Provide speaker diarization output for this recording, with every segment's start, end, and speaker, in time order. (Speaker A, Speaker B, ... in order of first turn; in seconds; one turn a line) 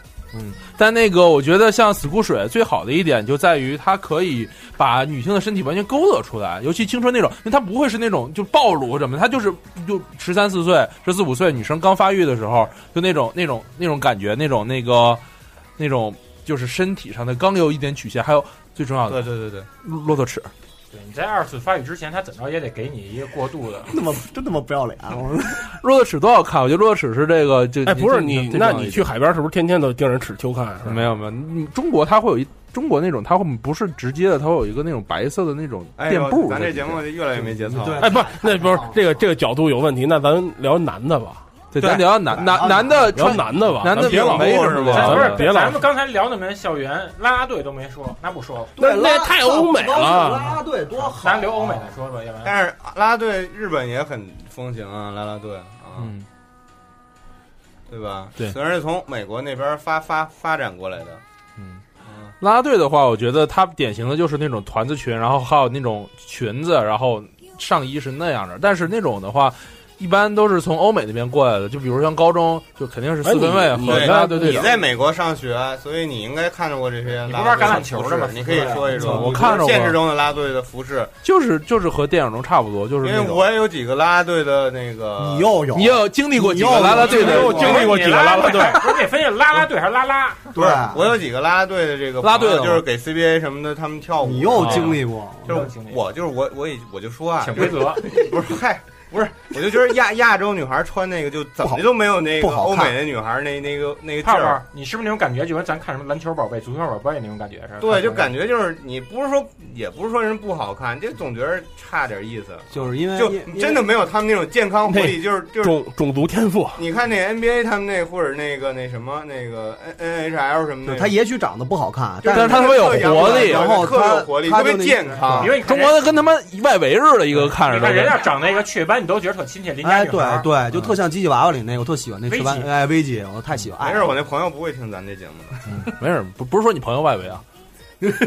Speaker A: 0.3-15.2
Speaker A: 15.8-20.5
Speaker B: 19.1-19.7
Speaker C: 20.9-23.9
Speaker D: 23.9-25.7
Speaker A: 25.7-29.1
Speaker E: 27.9-31.1
Speaker A: 30.8-37.0
Speaker B: 36.0-38.2
Speaker D: 37.6-39.0
Speaker E: 38.0-41.5
Speaker A: 41.7-45.5
Speaker D: 41.8-43.3
Speaker E: 42.8-45.9
Speaker B: 43.9-45.3
Speaker C: 44.9-48.8
Speaker E: 48.8-50.6
Speaker D: 48.8-51.9
Speaker C: 51.0-52.6
Speaker B: 52.4-56.1
Speaker A: 56.0-56.2
Speaker B: 57.9-61.2
Speaker B: 62.0-62.3
Speaker A: 62.4-74.7
Speaker E: 73.2-74.8
Speaker B: 73.8-81.1
Speaker C: 77.2-79.2
Speaker A: 78.9-80.0
Speaker D: 78.9-79.4
Speaker A: 81.2-83.5
Speaker B: 83.0-85.5
Speaker D: 85.2-87.5
Speaker A: 85.7-87.9
Speaker B: 86.7-88.0
Speaker C: 86.9-90.5
Speaker E: 87.1-89.0
Speaker D: 90.5-91.0
Speaker B: 90.5-104.6
Speaker A: 92.2-92.8
Speaker D: 94.2-95.5
Speaker A: 94.6-94.9
Speaker C: 95.4-96.0
Speaker C: 97.4-98.2
Speaker D: 101.6-103.0
Speaker C: 104.2-108.3
Speaker B: 107.8-115.8
Speaker D: 112.7-113.8
Speaker E: 114.8-116.8
Speaker B: 116.8-121.1
Speaker D: 120.8-125.5
Speaker B: 122.2-125.6
Speaker A: 122.3-123.7
Speaker C: 125.3-126.1
Speaker A: 125.6-128.2
Speaker C: 127.6-130.5
Speaker D: 129.8-134.1
Speaker C: 132.3-132.7
Speaker B: 133.8-135.6
Speaker A: 135.7-137.4